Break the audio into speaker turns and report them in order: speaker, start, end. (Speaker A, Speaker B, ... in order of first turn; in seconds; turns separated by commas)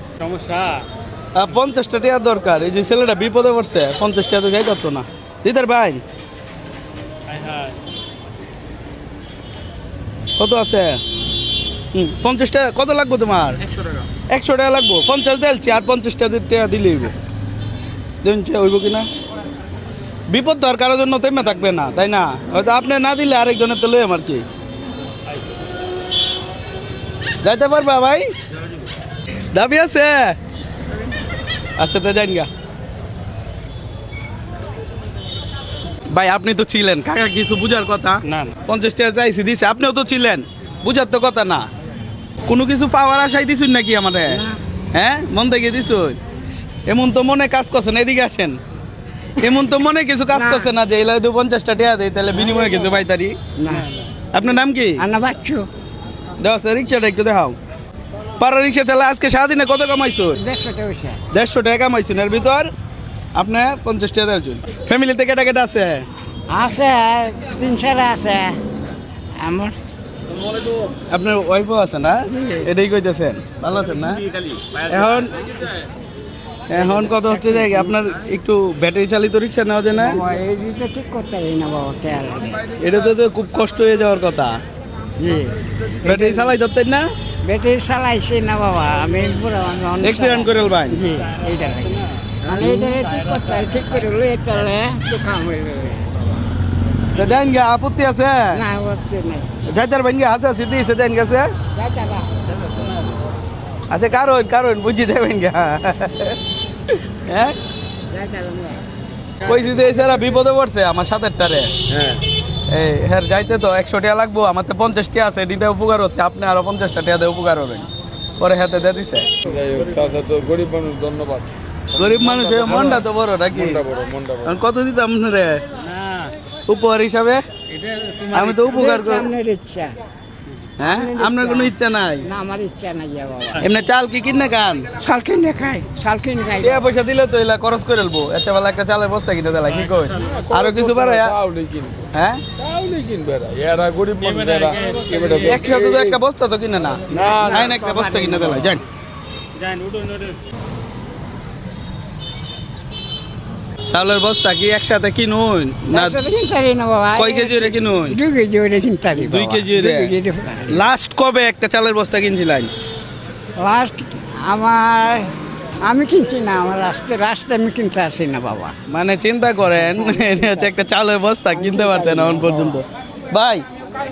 Speaker A: 0.2-0.8, Speaker B: 1.4-6.0, Speaker A: 7.3-7.8, Speaker B: 10.4-11.0, Speaker B: 11.9-13.6, Speaker B: 14.3-17.1, Speaker B: 18.2-19.1, Speaker B: 20.3-24.4, Speaker B: 27.4-28.3, Speaker B: 29.5-30.4, Speaker B: 31.8-32.5, Speaker B: 36.1-41.6, Speaker A: 38.3-38.5, Speaker B: 42.5-44.4, Speaker C: 44.3-44.6, Speaker B: 44.9-46.2, Speaker B: 46.9-48.6, Speaker B: 49.4-53.4, Speaker C: 50.3-50.7, Speaker C: 53.6-53.9, Speaker B: 54.3-55.0, Speaker C: 55.0-55.7, Speaker B: 56.4-57.6, Speaker B: 58.4-60.4, Speaker C: 60.4-61.2, Speaker B: 61.3-62.7, Speaker B: 63.3-66.1, Speaker C: 66.5-68.6, Speaker C: 69.4-69.7, Speaker B: 71.1-75.4, Speaker C: 72.3-72.7, Speaker B: 76.7-80.2, Speaker C: 77.3-77.9, Speaker C: 79.9-82.7, Speaker B: 82.8-84.6, Speaker C: 85.2-86.6, Speaker B: 86.0-87.1, Speaker C: 87.4-96.3, Speaker B: 90.0-91.0, Speaker B: 92.5-92.8, Speaker B: 97.1-98.6, Speaker C: 98.5-99.5, Speaker B: 99.7-101.5, Speaker C: 101.7-102.3, Speaker B: 103.9-107.6, Speaker C: 108.1-108.8, Speaker B: 109.4-111.7, Speaker B: 112.7-117.9, Speaker B: 118.4-119.3, Speaker D: 119.4-124.6, Speaker B: 122.0-123.8, Speaker B: 124.4-125.6, Speaker A: 125.8-126.3, Speaker B: 126.7-127.5, Speaker A: 127.7-128.6, Speaker B: 128.3-129.3, Speaker C: 128.7-130.0, Speaker B: 130.8-132.3, Speaker C: 130.8-133.7, Speaker B: 133.6-134.9, Speaker C: 135.0-136.9, Speaker B: 136.6-141.4, Speaker D: 140.2-146.2, Speaker B: 142.1-142.4, Speaker A: 144.2-145.6, Speaker B: 145.4-148.8, Speaker C: 147.1-148.8, Speaker D: 147.1-147.7, Speaker A: 149.6-150.4, Speaker B: 153.9-156.2, Speaker C: 155.9-160.9, Speaker B: 157.2-158.2, Speaker B: 159.1-160.1, Speaker B: 160.7-162.7, Speaker C: 163.6-165.3, Speaker C: 165.8-168.8, Speaker B: 168.9-173.7, Speaker C: 169.7-170.8, Speaker C: 171.5-172.8